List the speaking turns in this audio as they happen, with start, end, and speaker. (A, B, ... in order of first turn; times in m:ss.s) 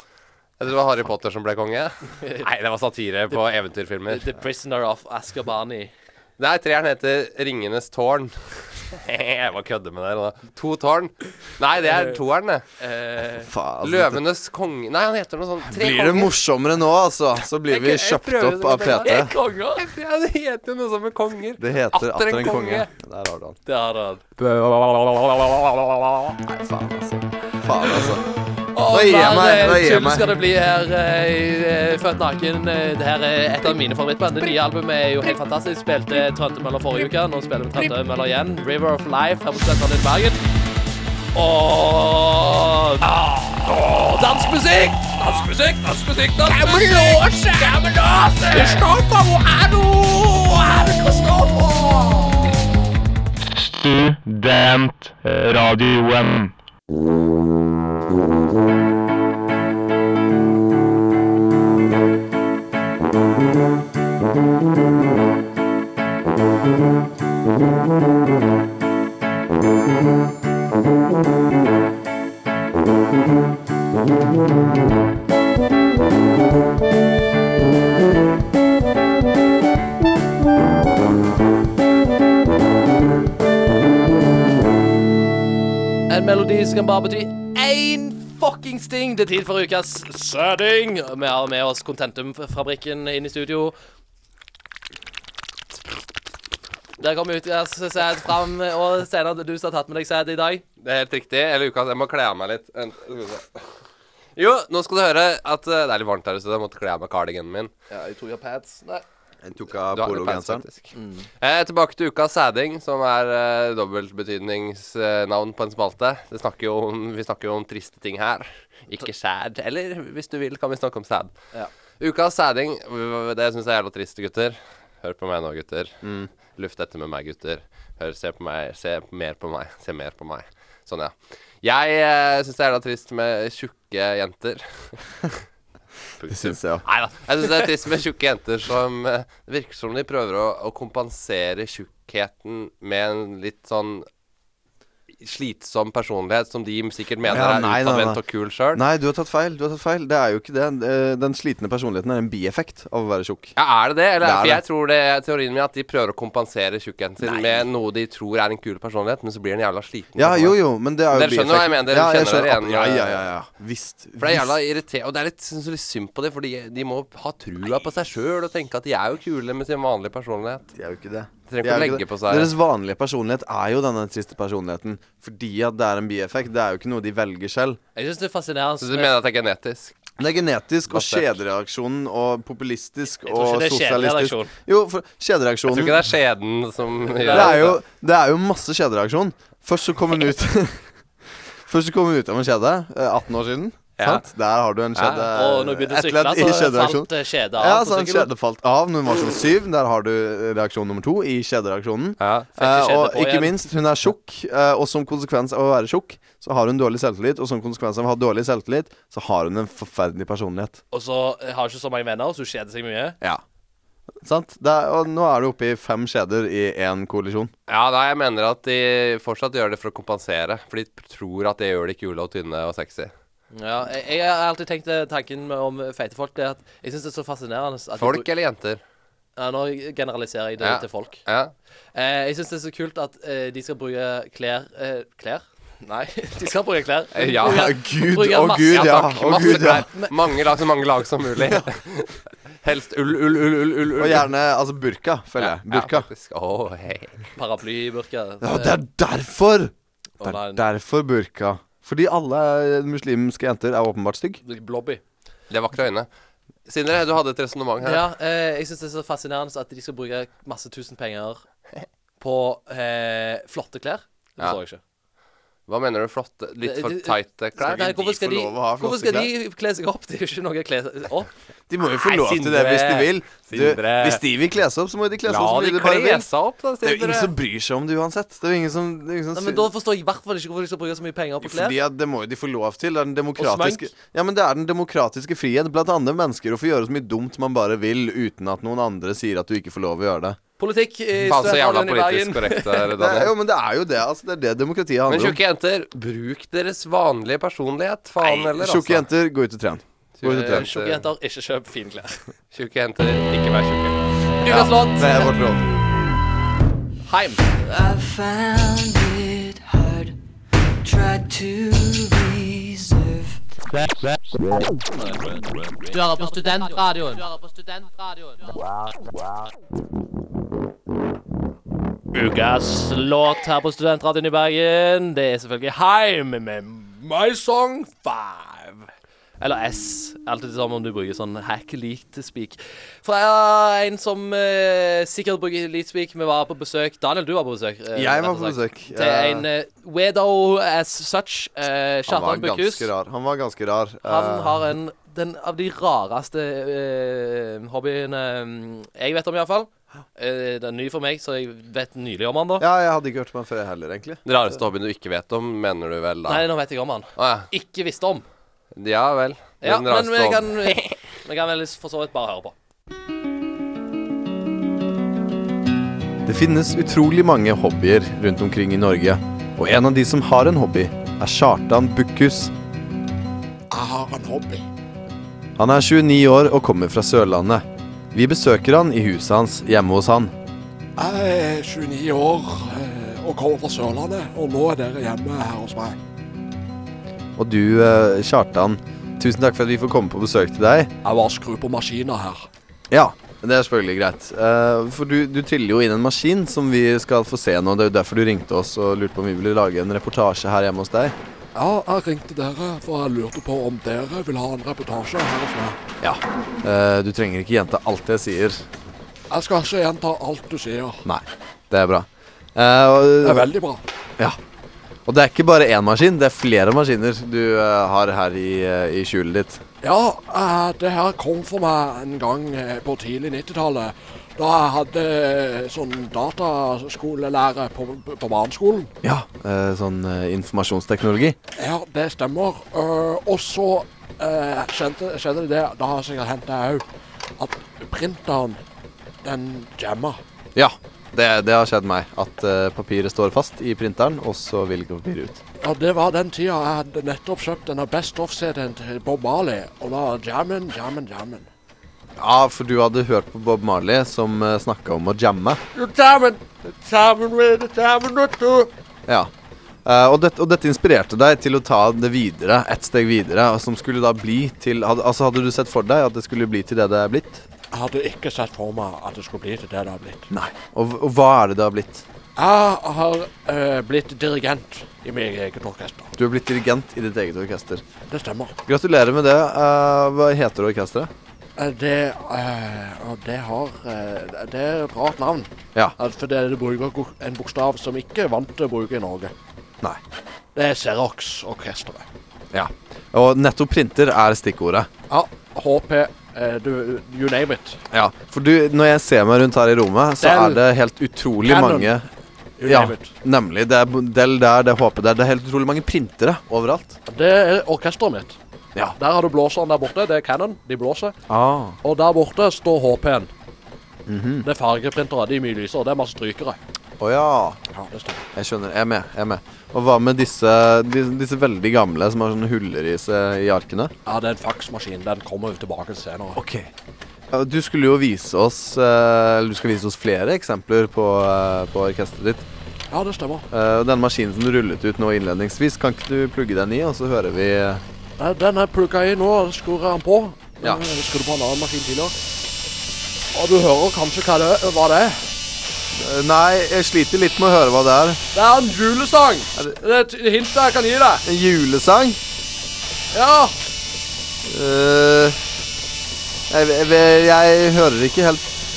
0:00.6-0:04.4 A
0:02.2-0:02.5 B
0:04.1-0:05.9 B
0:06.4-0:12.6 A
0:11.9-0:12.1 B
0:12.8-0:13.5 B
0:13.4-0:14.2 C
0:13.8-0:16.3 A
0:15.6-0:19.3 C
0:17.7-0:22.9 A
0:18.8-0:19.8 B
0:21.6-0:23.6 C
0:23.7-0:24.3 B
0:24.4-0:25.1 C
0:26.4-0:28.2 C
0:28.7-0:40.4 B
0:28.9-0:30.4 C
0:41.3-0:52.5 B
0:46.6-0:47.8 A
0:53.6-0:56.5 D
1:26.1-1:33.8 B
1:37.0-1:40.6 B
1:40.8-1:43.6 A
1:44.4-1:47.7 A
1:47.9-1:49.0 B
1:49.4-1:50.6 C
1:49.9-2:01.3 A
1:50.9-1:51.3 B
2:02.0-2:06.0 A
2:06.0-2:06.3 C
2:06.5-2:14.9 A
2:16.2-2:24.1 A
2:16.3-2:16.8 C
2:25.2-2:28.8 A
2:27.3-2:28.2 C
2:28.7-2:33.6 C
2:33.6-2:40.6 A
2:34.2-2:34.6 C
2:40.2-2:44.5 C
2:41.1-2:43.2 A
2:44.2-2:50.7 A
2:50.7-2:57.8 C
2:51.5-2:52.5 A
2:58.0-2:59.1 B
2:58.8-3:00.0 A
3:00.2-3:06.0 C
3:00.9-3:01.3 A
3:03.2-3:04.5 B
3:05.7-3:07.8 A
3:07.1-3:07.7 B
3:07.3-3:10.8 C
3:11.6-3:30.8 C
3:14.0-3:14.2 A
3:15.0-3:15.3 A
3:15.3-3:18.3 B
3:22.2-3:22.5 A
3:22.6-3:23.6 B
3:30.9-3:33.2 B
3:34.2-3:37.5 C
3:37.7-3:43.1 A
3:43.5-3:48.3 B
3:48.0-3:48.8 A
3:49.4-3:51.2 B
3:50.6-3:51.5 A
3:51.9-4:00.2 B
3:57.2-3:57.7 A
3:57.4-3:59.9 C
3:58.7-4:04.3 A
4:04.0-4:06.1 C
4:05.4-4:07.3 A
4:07.4-4:08.8 B
4:08.4-4:14.4 C
4:10.2-4:10.6 B
4:14.4-4:15.0 B
4:15.5-4:16.1 A
4:16.7-4:18.1 A
4:17.8-4:21.4 B
4:22.2-4:24.8 B
4:25.7-4:28.1 A
4:26.6-4:31.3 B
4:27.6-4:29.3 C
4:31.7-4:36.3 C
4:32.2-4:34.2 A
4:35.3-4:37.3 A
4:36.8-4:39.7 C
4:39.4-4:41.8 B
4:41.4-4:50.4 C
4:43.4-4:43.9 B
4:50.6-4:52.9 B
4:51.2-4:53.3 A
4:53.0-4:55.4 C
4:55.1-4:59.0 A
4:58.3-5:00.7 C
5:00.2-5:01.0 A
5:00.2-5:02.2 B
5:02.5-5:04.4 A
5:04.4-5:05.3 B
5:04.4-5:05.7 C
5:07.1-5:07.5 B
5:07.6-5:10.2 E
5:10.8-5:13.6 E
5:13.8-5:14.0 D
5:15.9-5:18.4 B
5:22.1-5:28.9 B
5:29.4-5:42.9 B
5:38.0-5:39.5 C
5:42.1-5:44.7 C
5:44.0-5:52.7 B
5:52.6-5:54.2 C
5:54.2-5:56.5 A
5:56.3-5:58.3 B
5:57.2-5:57.5 A
5:58.8-6:00.9 A
5:59.6-6:02.6 B
6:06.2-6:12.5 C
6:13.7-6:14.7 F
6:15.6-6:20.3 C
6:21.0-6:26.0 F
6:27.4-6:30.9 C
6:31.0-6:32.5 F
6:32.9-6:41.2 C
6:41.6-6:45.8 F
6:46.0-6:48.7 C
6:49.3-6:51.0 F
6:51.0-6:53.5 C
6:53.2-6:53.8 F
6:55.1-6:59.6 C
6:59.8-7:08.9 F
7:09.0-7:11.4 C
7:11.6-7:16.8 F
7:17.4-7:18.6 F
7:19.2-7:20.2 F
7:20.6-7:25.4 C
7:25.6-7:31.5 F
7:32.2-7:35.6 C
7:35.8-7:38.7 F
7:39.8-7:47.4 C
7:47.7-7:50.3 F
7:50.3-7:52.1 C
7:52.4-7:56.1 F
7:56.2-7:57.8 C
7:58.1-7:58.6 F
7:58.7-8:01.1 C
8:01.6-8:09.3 F
8:10.6-8:12.1 F
8:12.5-8:14.9 C
8:15.1-8:17.8 F
8:17.9-8:22.1 C
8:20.2-8:20.6 F
8:21.4-8:21.9 F
8:22.6-8:23.1 F
8:22.6-8:27.0 C
8:27.1-8:28.4 F
8:29.0-8:31.2 F
8:31.3-8:31.8 C
8:31.8-8:33.3 F
8:34.1-8:34.5 C
8:34.4-8:36.6 F
8:37.0-8:37.6 C
8:37.7-8:38.3 F
8:38.3-8:43.9 C
8:44.1-8:46.4 F
8:46.4-8:46.7 C
8:47.3-8:52.5 C
8:52.9-8:53.5 F
8:53.5-8:57.8 C
8:58.2-9:02.2 F
9:03.3-9:05.3 F
9:05.9-9:08.2 C
9:08.3-9:11.2 F
9:11.2-9:12.2 C
9:13.1-9:13.6 F
9:14.4-9:15.4 C
9:16.5-9:18.5 C